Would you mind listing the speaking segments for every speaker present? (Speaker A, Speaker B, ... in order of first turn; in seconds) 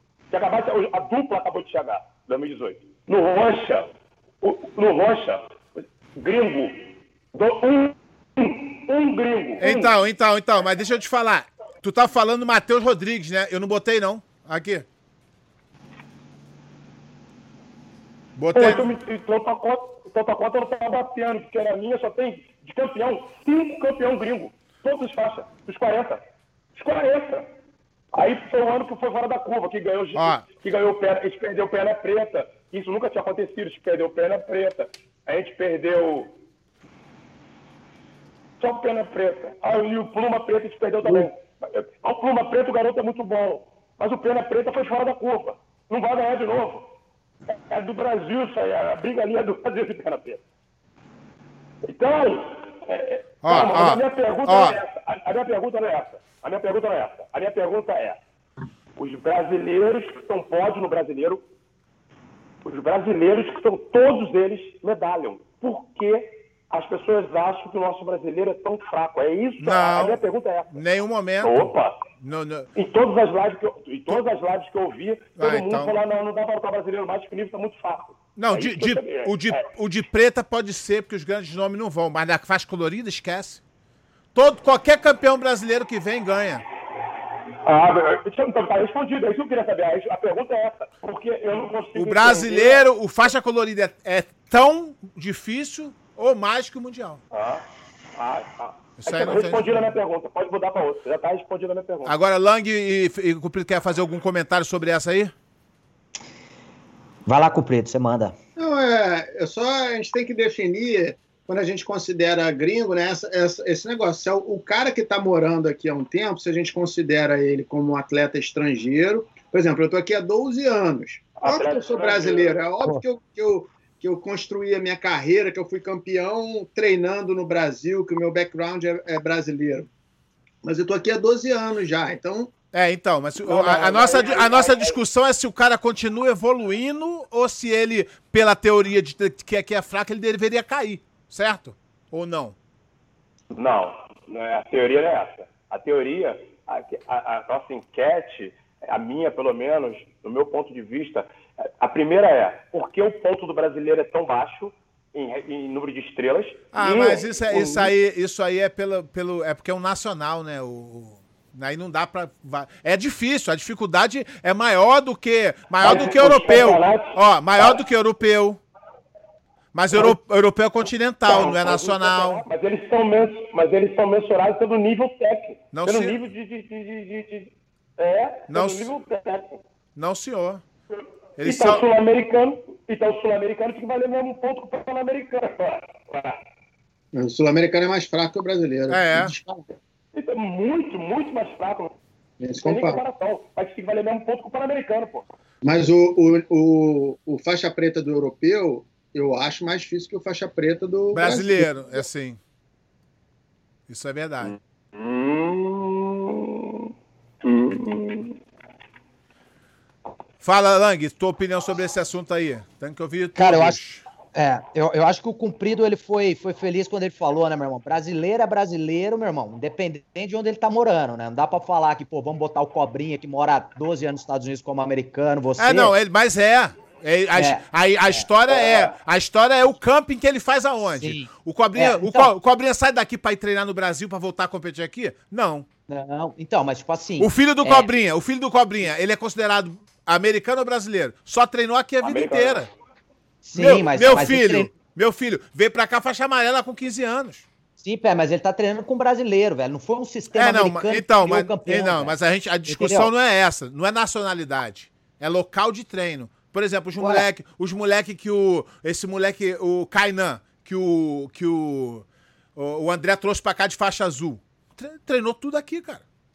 Speaker A: 0.3-3.9, 4.4-5.5, 6.2-9.9, 18.5-26.2, 26.8-27.5, 28.1-36.3, 38.6-46.9, 47.5-50.4, 51.8-58.2, 59.0-61.4, 62.6-70.7, 71.4-72.0, 72.8-79.6, 87.6-92.8, 97.3-97.6, 98.2-102.1, 121.4-122.6, 133.4-135.0, 143.5-157.9, 165.8-167.8, 171.3-179.6, 181.4-186.4, 190.1-191.9, 192.6-195.2, 204.4-206.9, 207.4-208.4, 242.0-242.7
Speaker B: 9.6-14.9, 18.4-18.9, 30.1-30.4, 53.4-54.8, 69.6-72.7, 75.4-75.9, 78.4-83.6, 84.3-86.7, 91.9-97.2, 99.0-99.8, 102.1-105.3, 132.7-142.6, 156.7-168.6, 169.7-172.4, 175.7-176.3, 178.5-178.9, 180.0-180.6, 181.4-181.8, 188.9-189.3, 201.1-202.4, 203.9-204.6, 210.4-214.1, 225.6-235.7, 237.2-242.7, 243.5-247.5, 250.3-266.0
Speaker C: 107.3-108.4, 213.4-213.8, 214.3-225.9, 227.3-228.3, 230.9-232.3, 235.9-237.9, 243.4-244.7, 247.8-253.1, 257.0-257.2
Speaker D: 108.6-129.9, 130.6-132.5, 187.1-189.7, 192.4-193.0, 195.6-201.7